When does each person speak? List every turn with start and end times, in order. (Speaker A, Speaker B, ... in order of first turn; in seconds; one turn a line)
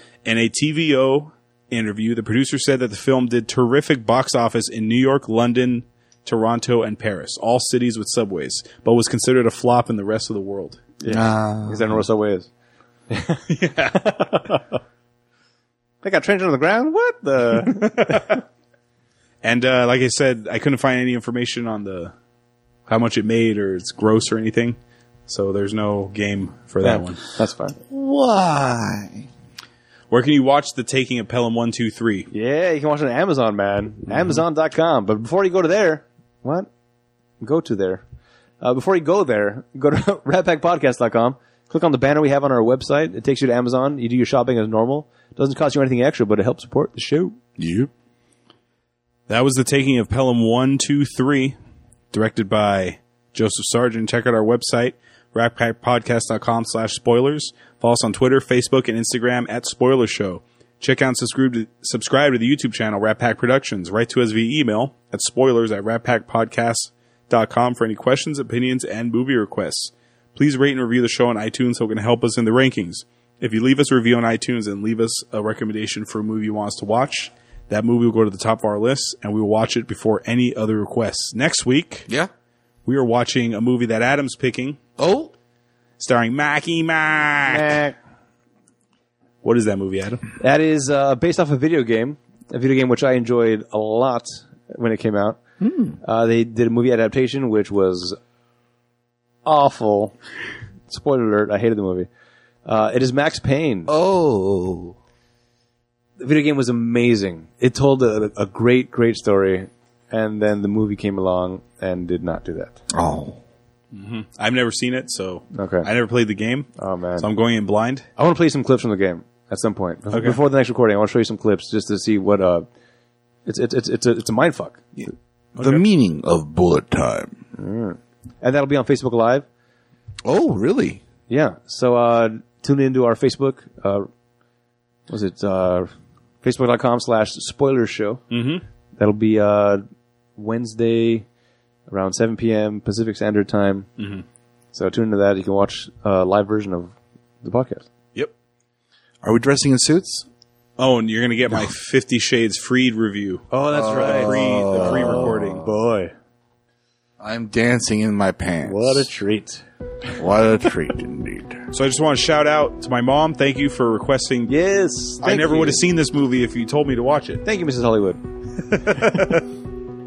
Speaker A: 0.2-10.8
Speaker B: 11.0-12.5
Speaker C: 11.1-12.0
Speaker B: 13.1-14.6
Speaker A: 13.5-14.4
Speaker B: 16.0-18.4
Speaker A: 17.5-18.4
Speaker A: 19.4-22.1
Speaker A: 22.9-27.2
Speaker B: 26.8-27.8
Speaker C: 27.9-29.2
Speaker A: 30.1-32.3
Speaker B: 32.3-36.7
Speaker B: 37.4-38.0
Speaker B: 38.6-47.4
Speaker C: 47.6-47.9
Speaker A: 49.3-51.5
Speaker A: 52.1-82.1
Speaker A: 82.8-84.8
Speaker C: 85.0-85.3
Speaker A: 86.0-87.8
Speaker B: 87.4-88.0
Speaker A: 89.4-90.2
Speaker B: 90.4-95.4
Speaker C: 95.6-96.0
Speaker B: 96.0-98.2
Speaker B: 99.4-100.2
Speaker B: 100.9-102.1
Speaker B: 102.6-103.9
Speaker C: 103.9-105.0
Speaker B: 106.2-112.8
Speaker C: 112.9-113.4
Speaker A: 113.9-118.0
Speaker B: 115.5-115.9
Speaker B: 116.8-117.3
Speaker B: 118.2-122.7
Speaker A: 120.1-120.4
Speaker B: 123.5-124.8
Speaker A: 125.6-125.8
Speaker C: 125.6-127.3
Speaker B: 127.6-129.4
Speaker C: 130.2-131.0
Speaker B: 131.3-134.1
Speaker B: 135.1-135.9
Speaker B: 136.4-138.2
Speaker A: 138.3-138.6
Speaker B: 139.0-139.8
Speaker B: 140.4-141.2
Speaker B: 141.9-143.9
Speaker A: 144.0-144.2
Speaker B: 144.7-147.8
Speaker C: 149.2-150.2
Speaker A: 150.8-155.7
Speaker B: 153.5-156.1
Speaker C: 153.7-155.7
Speaker C: 157.2-159.1
Speaker B: 158.6-159.6
Speaker C: 160.2-161.7
Speaker A: 161.7-164.5
Speaker B: 164.5-165.8
Speaker A: 165.2-167.4
Speaker B: 167.4-168.2
Speaker A: 168.6-169.5